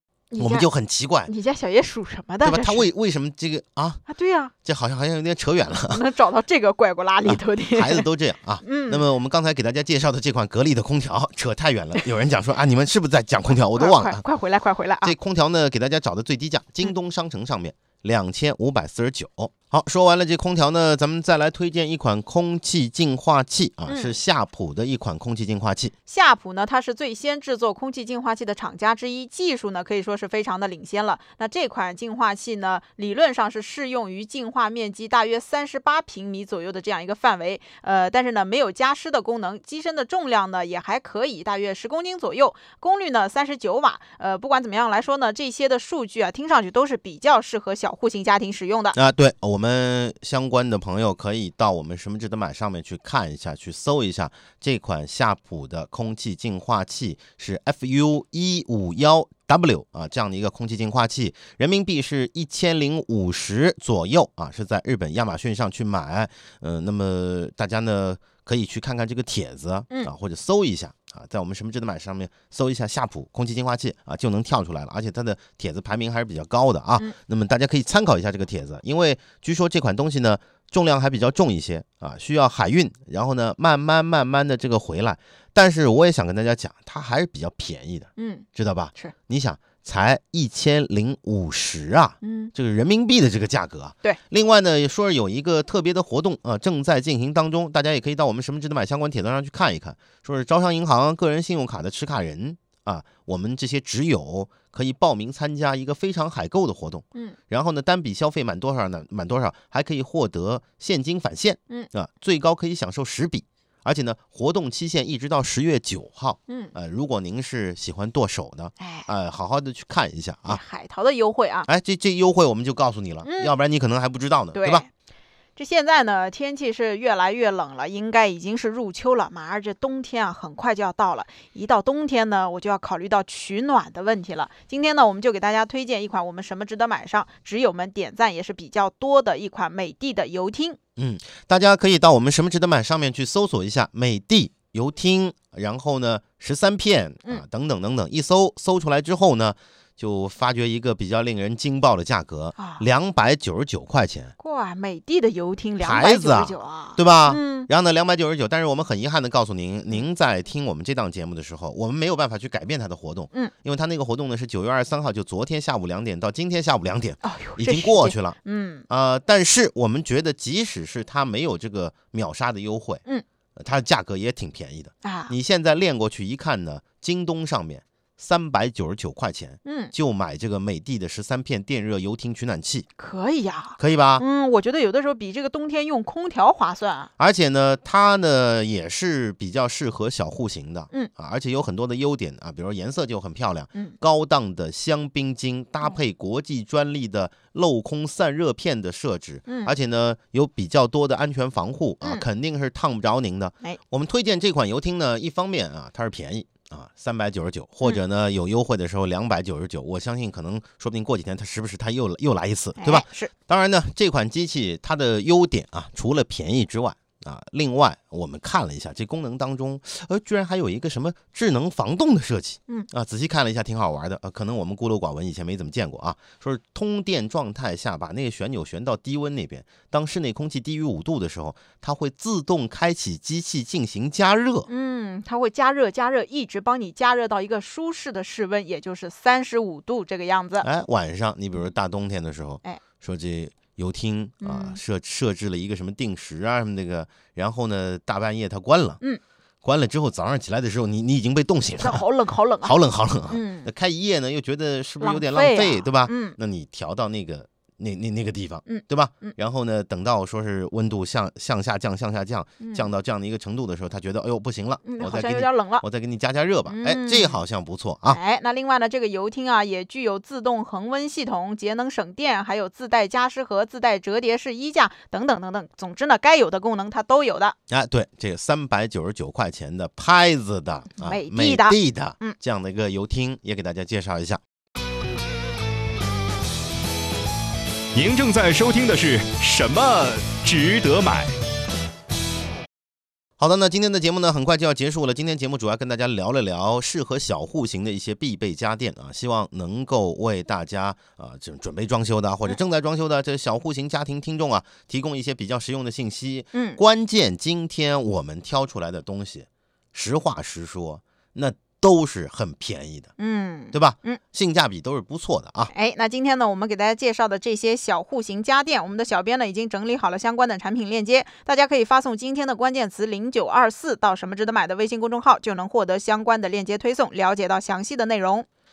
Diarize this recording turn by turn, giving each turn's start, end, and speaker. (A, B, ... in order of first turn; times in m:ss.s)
0:00.3-0:00.7 A
0:00.4-0:01.3 B
0:01.3-0:02.9 A
0:02.4-0:04.0 B
0:04.1-0:04.5 A
0:04.6-0:06.0 B
0:05.9-0:08.1 A
0:07.2-0:14.2 B
0:08.6-0:09.0 A
0:13.7-0:15.1 A
0:15.0-0:26.0 B
0:23.9-0:24.2 A
0:26.1-0:49.0 A
0:48.9-2:00.6 B
1:28.2-1:29.1 A
1:32.2-1:32.5 A
1:56.5-1:56.7 A
1:58.8-1:59.1 A
2:00.5-2:01.7 A
2:01.7-2:04.9 B
2:03.2-2:03.6 A
2:04.5-2:04.9 A
2:05.6-2:20.8 A
2:21.0-2:34.3 B
2:32.6-2:32.8 A
2:34.4-2:37.7 A
2:35.8-2:48.4 B
2:47.2-2:48.8 A
2:48.9-2:53.0 B
2:53.6-3:02.9 B
2:55.0-2:55.3 A
2:59.6-2:59.9 A
3:03.0-3:07.1 A
3:03.8-3:04.2 B
3:07.2-3:54.7 B
3:19.5-3:19.7 A
3:32.8-3:33.3 A
3:54.7-4:00.7 A
4:00.6-4:09.0 B
4:04.4-4:04.8 A
4:09.6-4:12.0 B
4:11.8-4:12.8 A
4:12.6-4:28.2 B
4:13.3-4:13.7 A
4:15.0-4:16.4 A
4:18.7-4:19.4 A
4:22.6-4:22.9 A
4:24.8-4:25.8 A
4:26.7-4:27.4 A
4:28.1-4:37.6 A
4:37.7-4:44.4 B
4:41.0-4:42.4 A
4:47.9-4:51.4 C
4:53.4-5:13.1 B
5:06.5-5:06.8 A
5:13.2-5:14.2 A
5:13.7-5:15.7 B
5:15.7-5:28.5 A